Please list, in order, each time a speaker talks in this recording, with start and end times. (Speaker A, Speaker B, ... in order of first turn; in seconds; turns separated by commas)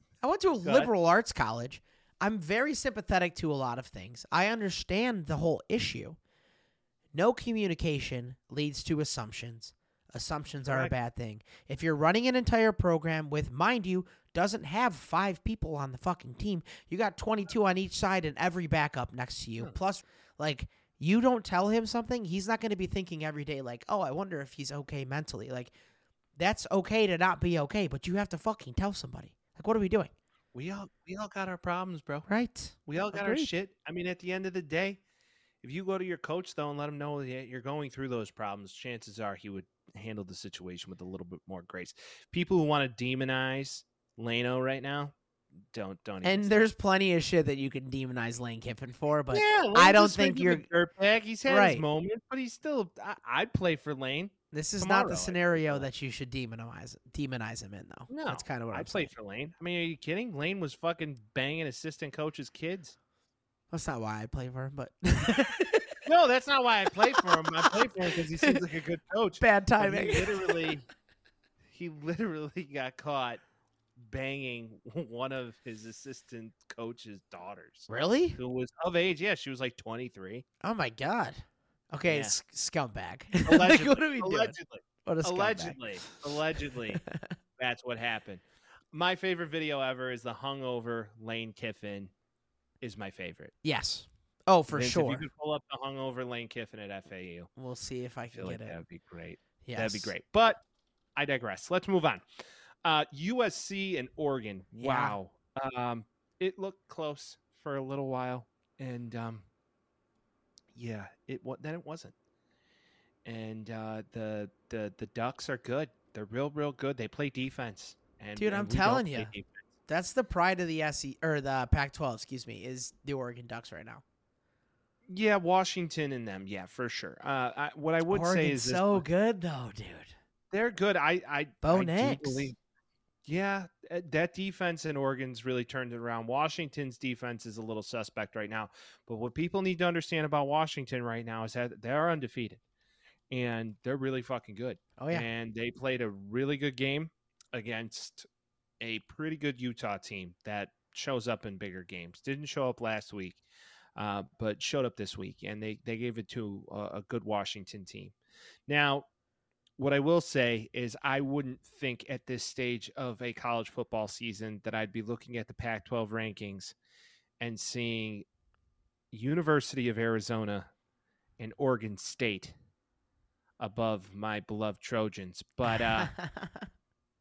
Speaker A: 0.2-6.2, Speaker B: 0.6-0.9, Speaker A: 7.1-25.7, Speaker B: 10.7-10.9, Speaker A: 26.4-30.1, Speaker B: 30.5-32.3, Speaker A: 32.3-33.5, Speaker B: 32.9-35.0, Speaker B: 35.6-45.1, Speaker B: 45.7-46.6, Speaker A: 46.2-50.6, Speaker B: 49.3-55.9, Speaker A: 51.5-51.8, Speaker A: 54.5-59.1, Speaker B: 58.1-63.0, Speaker A: 63.7-66.0, Speaker B: 66.0-70.9, Speaker A: 67.1-67.9, Speaker A: 69.4-70.7, Speaker B: 71.7-73.4, Speaker B: 74.0-80.5, Speaker A: 77.9-78.4, Speaker A: 80.6-85.8, Speaker B: 82.0-82.3, Speaker B: 83.4-87.0, Speaker A: 87.1-87.3, Speaker B: 87.6-88.4, Speaker B: 88.9-92.1, Speaker B: 92.8-93.5, Speaker A: 93.6-95.2, Speaker B: 94.7-97.5, Speaker A: 97.6-98.8, Speaker B: 98.3-100.6, Speaker A: 99.6-100.1, Speaker B: 101.2-102.2, Speaker B: 102.8-109.5, Speaker A: 104.8-105.2, Speaker B: 110.7-112.1, Speaker B: 113.2-119.7, Speaker A: 118.4-119.3, Speaker A: 119.9-124.0, Speaker B: 125.1-129.1, Speaker A: 128.1-130.2, Speaker B: 130.5-132.6, Speaker A: 131.6-132.5, Speaker B: 133.3-142.6, Speaker B: 143.3-148.3, Speaker A: 145.0-145.3, Speaker B: 148.8-153.4, Speaker B: 153.9-158.1, Speaker B: 158.7-159.1, Speaker B: 159.8-166.7, Speaker B: 167.4-168.3, Speaker B: 169.1-170.7, Speaker B: 171.4-172.6, Speaker B: 173.6-176.1, Speaker A: 175.7-176.7